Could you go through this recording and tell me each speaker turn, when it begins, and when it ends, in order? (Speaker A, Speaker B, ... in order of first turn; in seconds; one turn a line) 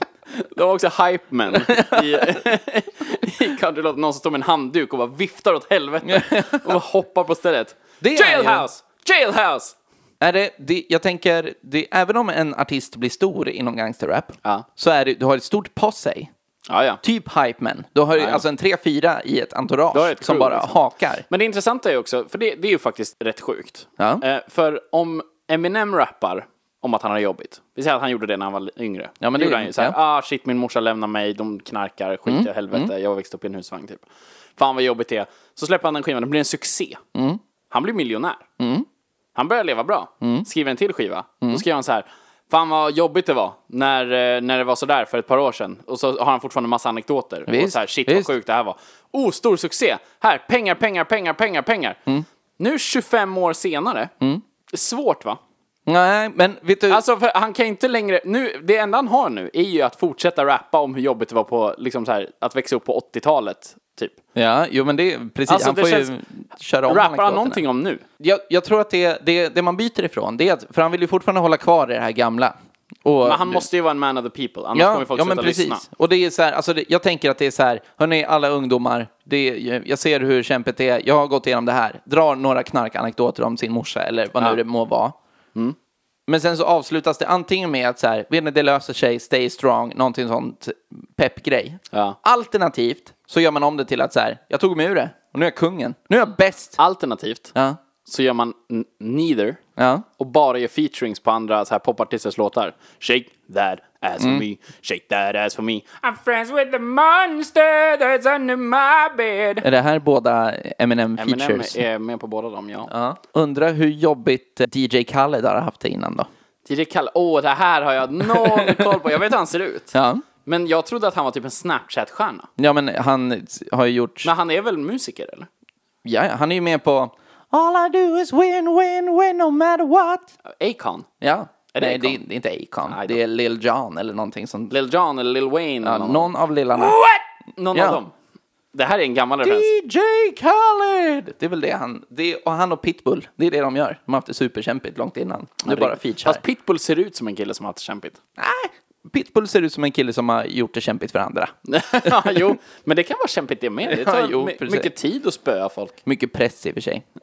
Speaker A: 0.3-9.7
Speaker B: 1.6-2.4
Speaker B: 6.0-6.8
Speaker B: 8.0-8.6
Speaker B: 10.2-16.3
Speaker A: 16.7-17.0
Speaker B: 17.0-21.2
Speaker A: 18.1-18.4
Speaker A: 19.9-20.8
Speaker A: 21.3-34.0
Speaker B: 24.0-24.2
Speaker B: 29.2-29.9
Speaker B: 32.3-32.9
Speaker A: 34.6-37.0
Speaker B: 37.1-37.4
Speaker A: 37.7-38.5
Speaker B: 38.6-38.9
Speaker A: 39.3-52.0
Speaker B: 40.2-40.5
Speaker B: 47.5-48.3
Speaker A: 52.6-54.1
Speaker A: 54.7-55.4
Speaker B: 55.9-57.0
Speaker A: 56.9-64.2
Speaker B: 64.3-67.6
Speaker A: 65.5-66.1
Speaker A: 66.9-68.0
Speaker B: 68.2-73.7
Speaker A: 73.2-75.8
Speaker B: 74.7-85.2
Speaker B: 86.3-96.8
Speaker A: 91.9-92.2
Speaker A: 96.8-97.5
Speaker A: 98.0-99.6
Speaker B: 99.8-100.0
Speaker A: 100.2-109.7
Speaker B: 104.2-104.4
Speaker B: 109.6-111.8
Speaker A: 111.2-112.9
Speaker B: 112.9-116.3
Speaker A: 116.7-119.9
Speaker B: 118.2-119.0
Speaker B: 119.9-120.2
Speaker A: 120.4-122.5
Speaker B: 122.6-124.3
Speaker A: 124.2-125.5
Speaker B: 126.0-130.3
Speaker A: 130.4-131.1
Speaker B: 131.2-134.7
Speaker A: 131.7-132.2
Speaker A: 132.9-133.2
Speaker A: 134.7-138.1
Speaker B: 135.8-137.0
Speaker B: 137.7-138.0
Speaker A: 138.7-139.7
Speaker B: 139.4-146.4
Speaker A: 145.6-148.2
Speaker B: 148.4-151.5
Speaker A: 151.7-156.0
Speaker B: 152.0-152.5
Speaker B: 153.8-154.9
Speaker B: 156.1-157.0